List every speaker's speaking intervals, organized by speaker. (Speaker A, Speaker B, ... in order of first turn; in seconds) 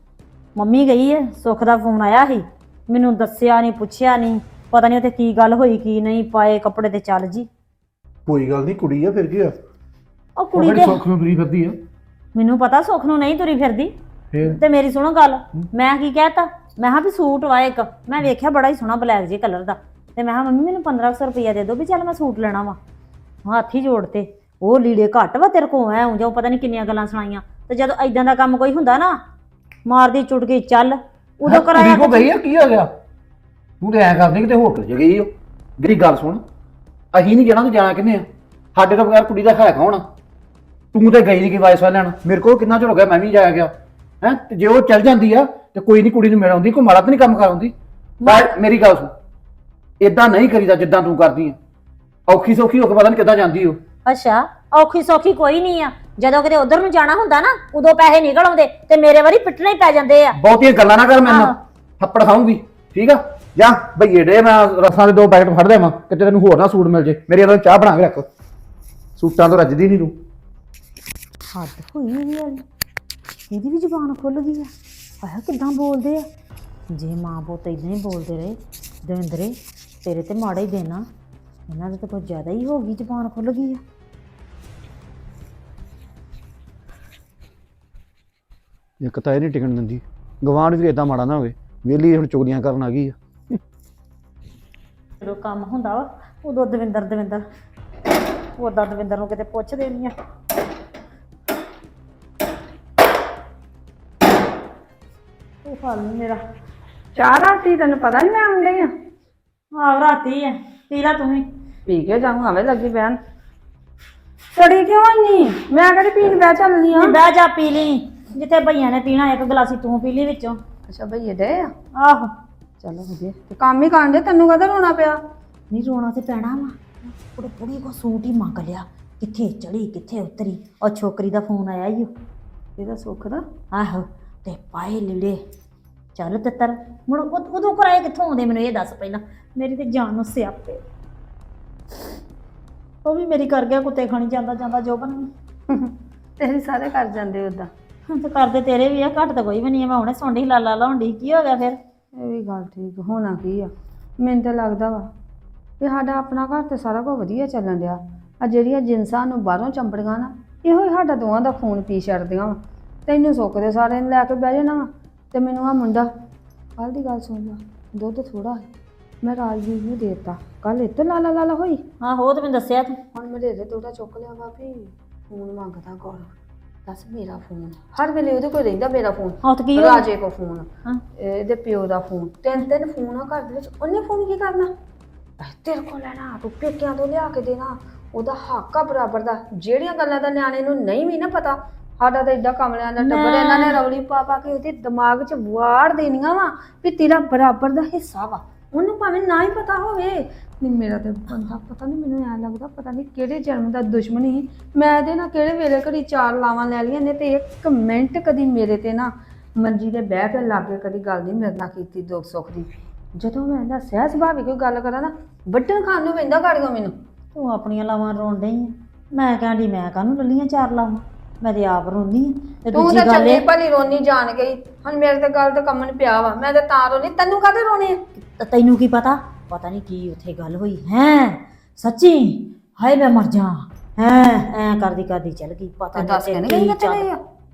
Speaker A: 0.6-7.5, 10.4-11.0, 12.3-22.8, 23.4-29.2, 29.9-32.3, 48.2-48.5, 54.0-60.4, 61.2-61.5, 71.5-72.6, 73.5-74.7, 75.2-76.3, 76.9-81.0, 81.7-83.8, 95.2-97.4, 98.6-100.1, 105.6-106.4, 109.7-111.4, 116.9-120.6, 122.0-122.3, 125.7-126.8, 127.3-132.1, 133.7-135.4, 136.2-140.8, 143.0-145.3, 148.1-151.8, 172.0-173.0, 179.4-180.1, 193.0-193.8, 217.3-223.4, 228.2-237.1
Speaker B: 8.2-9.5, 10.5-11.8, 14.3-14.6, 31.4-32.9, 33.8-36.4, 37.1-40.0, 40.9-43.7, 44.2-49.1, 50.0-51.6, 52.3-53.8, 60.4-68.3, 69.2-70.2, 89.0-93.2
Speaker C: 107.2-108.9, 111.9-113.2, 114.5-117.2, 120.9-121.7, 122.8-125.2, 132.8-133.4, 145.7-147.7, 152.2-155.1, 155.8-166.1, 166.8-168.7, 169.2-171.8, 173.1-176.3, 176.8-180.7, 181.2-184.7, 185.4-216.9, 222.7-228.0, 235.9-237.2